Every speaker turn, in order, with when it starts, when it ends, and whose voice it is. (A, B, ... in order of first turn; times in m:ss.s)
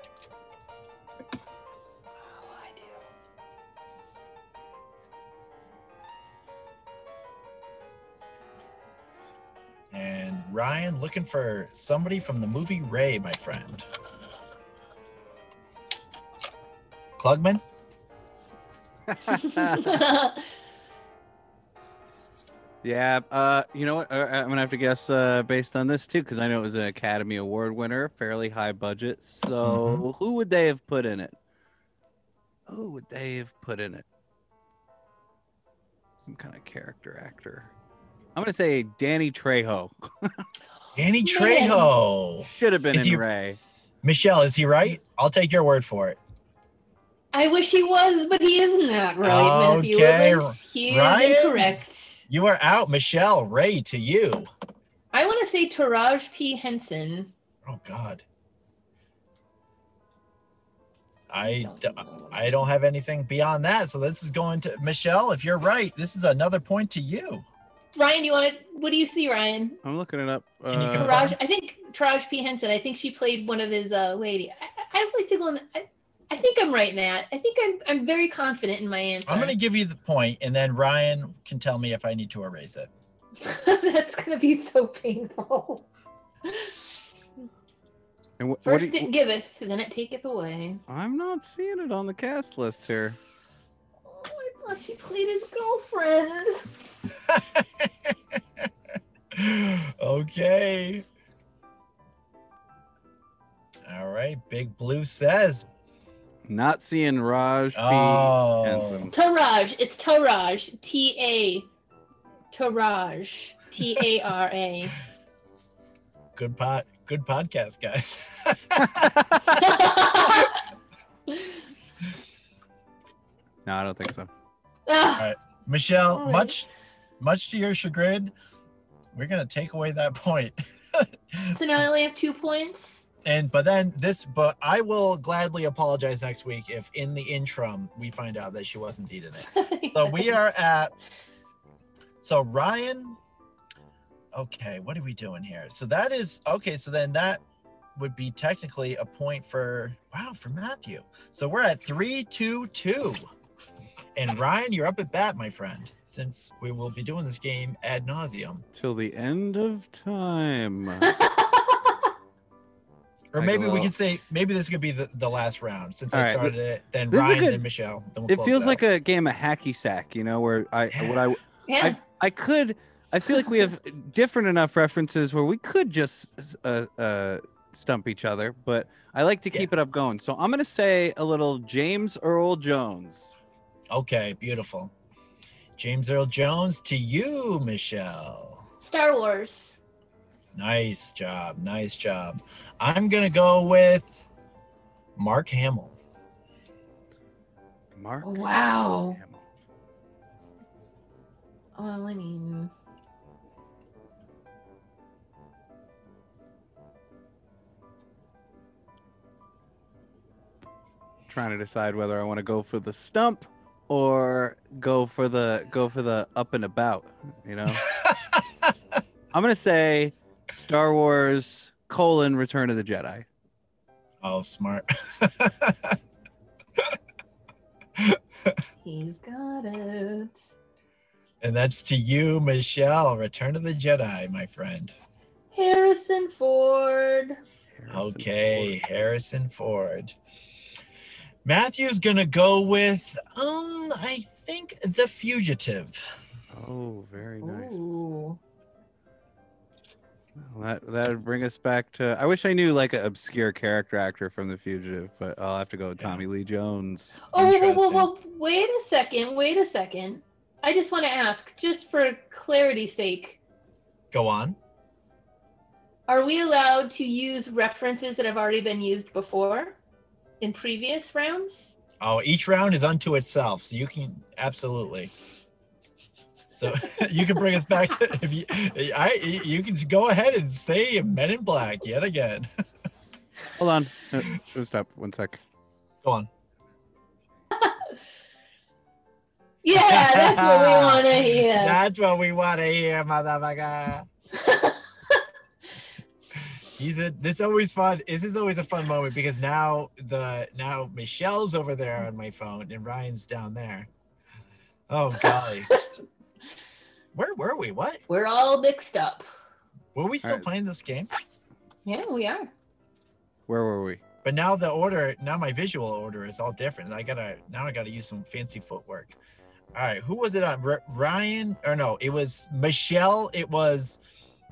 0:02.2-0:03.0 A
0:09.9-0:13.8 B
0:17.2-0:17.6 B
0:19.1-0:19.9 C
0:19.3-0:20.4 A
0:22.8-0:31.4 C
0:29.6-0:30.0 B
0:32.7-0:34.0 C
0:36.2-0:37.7 C
0:38.3-0:40.4 C
0:40.9-0:43.2 B
0:41.2-0:41.9 A
0:42.5-0:43.6 C
0:44.0-0:46.2 B
0:47.3-0:52.2 A
0:49.2-0:51.8 B
0:52.3-0:54.5 B
0:55.1-0:57.3 A
0:57.6-0:58.2 B
1:01.3-1:07.4 B
1:01.4-1:02.6 A
1:07.9-1:09.8 A
1:09.8-1:11.3 C
1:10.7-1:11.4 B
1:11.0-1:19.6 A
1:19.2-1:22.9 B
1:23.4-1:25.9 A
1:26.4-1:26.7 A
1:28.4-1:29.1 C
1:28.6-1:30.8 A
1:30.9-1:33.2 C
1:34.1-1:36.6 A
1:37.2-1:38.7 B
1:39.3-1:41.0 B
1:43.8-1:45.7 B
1:46.4-1:49.1 C
1:47.8-1:49.1 B
1:49.1-1:51.7 A
1:52.5-1:55.0 A
1:56.4-1:59.2 B
1:58.9-1:59.4 C
1:59.5-2:00.6 A
2:01.3-2:01.5 A
2:03.6-2:04.3 C
2:04.9-2:05.3 A
2:05.2-2:06.7 B
2:06.1-2:06.6 A
2:07.2-2:08.3 B
2:09.1-2:11.6 B
2:11.5-2:13.0 A
2:13.2-2:20.9 B
2:19.5-2:20.4 A
2:22.2-2:23.2 B
2:24.3-2:27.4 B
2:28.0-2:33.2 B
2:34.1-2:38.6 B
2:38.7-2:41.2 C
2:41.0-2:41.9 A
2:43.3-2:48.8 B
2:43.4-2:43.9 C
2:46.1-2:46.5 C
2:47.1-2:47.6 C
2:48.3-3:03.3 C
2:50.9-2:51.3 B
2:51.7-2:52.0 A
3:03.9-3:04.9 B
3:05.8-3:08.6 B
3:08.8-3:09.8 A
3:10.5-3:14.2 B
3:15.2-3:16.0 B
3:17.9-3:19.4 C
3:18.2-3:19.2 A
3:21.8-3:22.7 A
3:31.3-3:37.9 C
3:37.8-3:38.4 B
3:39.3-3:43.2 C
3:44.2-3:46.0 B
3:48.0-3:48.6 B
3:48.8-3:50.4 A
3:51.4-3:55.0 B
3:55.5-3:57.4 A
3:57.8-3:58.8 C
3:57.9-4:00.2 B
4:01.4-4:06.0 B
4:06.5-4:08.0 C
4:07.4-4:08.4 A
4:10.4-4:17.2 C
4:16.0-4:16.2 B
4:17.3-4:23.4 A
4:17.3-4:18.1 B
4:24.1-4:24.6 B
4:26.1-4:29.8 A
4:30.4-4:31.7 A
4:32.0-4:35.1 B
4:36.5-4:42.5 B
4:43.6-4:45.4 C
4:46.0-4:46.3 B
4:49.6-4:51.8 A
4:49.7-4:54.1 B
4:54.3-4:55.2 A
4:56.3-5:03.9 B
5:04.9-5:05.7 B
5:07.1-5:08.0 B
5:08.1-5:09.2 A
5:09.9-5:11.1 B
5:11.8-5:12.5 A
5:13.5-5:14.0 C
5:14.2-5:19.2 B
5:19.7-5:24.0 B